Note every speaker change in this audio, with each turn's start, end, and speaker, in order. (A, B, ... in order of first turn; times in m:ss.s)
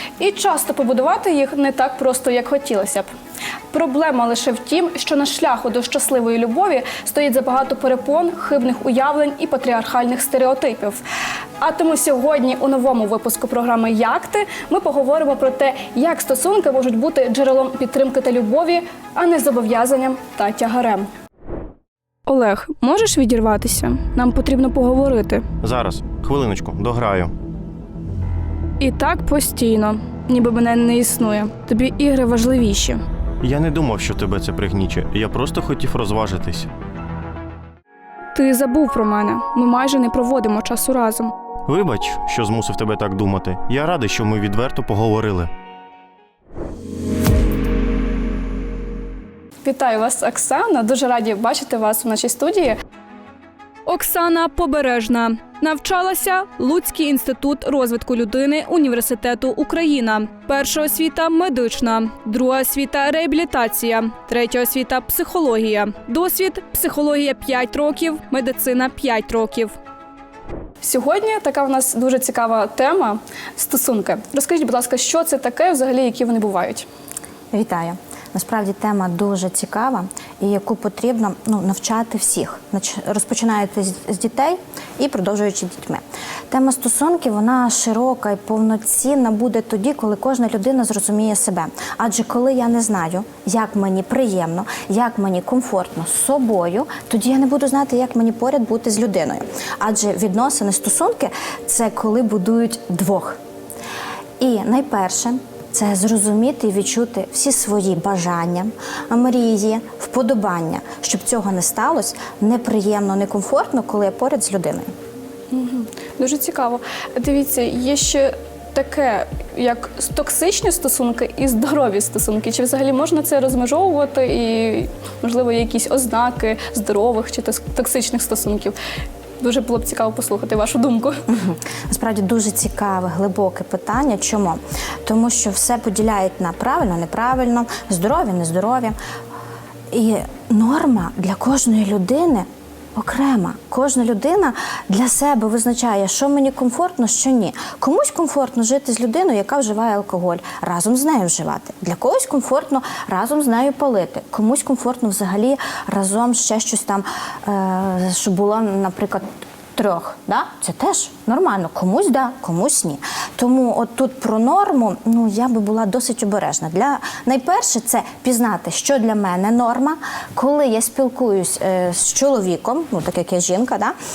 0:00.2-0:03.1 A
0:03.7-0:11.0 A
0:11.6-0:21.1 A
0:22.3-0:25.5 A
0:25.6-0:27.3 B
0:28.8-0:33.0 A
0:33.4-0:36.7 B
0:38.3-0:41.3 A
0:41.6-0:45.5 B
0:49.6-0:52.8 A
0:53.8-1:09.7 A
1:10.8-1:16.8 A
1:17.5-1:43.4 C
1:44.4-1:54.9 C
1:55.5-2:08.8 A
2:09.4-2:11.2 A
2:11.3-2:19.0 C
2:19.9-2:53.9 C